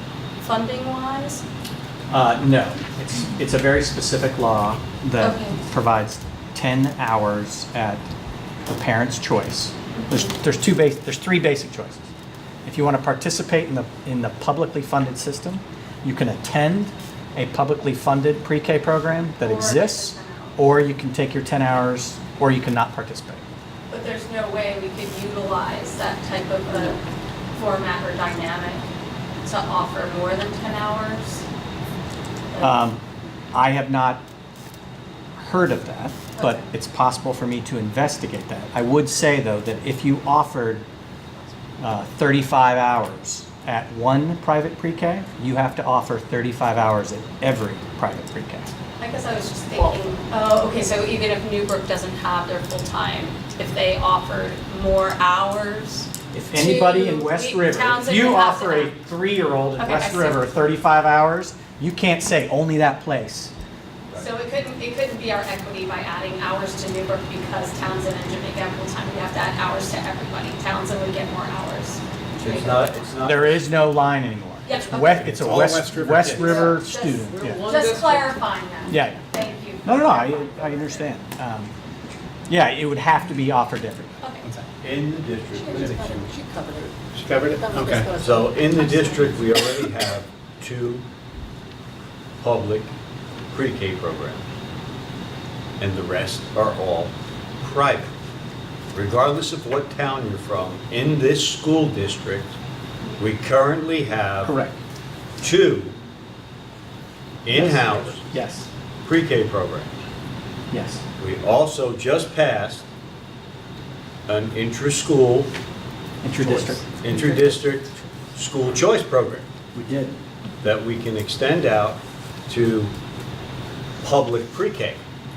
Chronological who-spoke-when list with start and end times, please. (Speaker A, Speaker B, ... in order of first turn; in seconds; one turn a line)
Speaker A: 0.4-1.4
Speaker B: 2.1-8.1
Speaker A: 5.2-5.6
Speaker B: 8.7-12.0
Speaker A: 9.9-10.3
Speaker B: 12.6-23.4
Speaker A: 19.4-20.6
Speaker A: 23.9-27.0
Speaker A: 27.5-31.4
Speaker A: 32.5-32.9
Speaker B: 32.6-33.0
Speaker B: 33.5-34.2
Speaker B: 35.4-40.9
Speaker A: 36.4-36.6
Speaker B: 41.8-48.7
Speaker A: 49.0-58.9
Speaker B: 56.3-63.5
Speaker A: 59.8-60.4
Speaker A: 64.1-73.1
Speaker C: 72.4-73.6
Speaker B: 73.2-77.6
Speaker A: 74.7-75.2
Speaker D: 75.0-76.8
Speaker A: 76.5-81.0
Speaker E: 77.2-78.4
Speaker B: 78.9-79.2
Speaker B: 79.8-81.7
Speaker B: 82.5-84.2
Speaker C: 84.8-86.3
Speaker D: 85.7-86.1
Speaker E: 85.7-86.9
Speaker D: 87.1-88.2
Speaker E: 87.6-88.4
Speaker C: 88.1-91.0
Speaker C: 92.4-92.9
Speaker C: 93.5-94.5
Speaker C: 95.8-98.1
Speaker C: 98.9-102.5
Speaker C: 103.2-104.5
Speaker B: 104.4-104.8
Speaker C: 105.4-106.0
Speaker C: 107.4-108.2
Speaker B: 107.5-108.7
Speaker C: 109.0-109.9
Speaker B: 110.7-111.0
Speaker C: 111.2-112.8
Speaker C: 114.3-115.5
Speaker B: 116.2-116.9
Speaker C: 117.0-119.5
Speaker E: 117.1-117.6
Speaker B: 119.7-120.2
Speaker C: 120.6-122.9
Speaker C: 124.0-125.0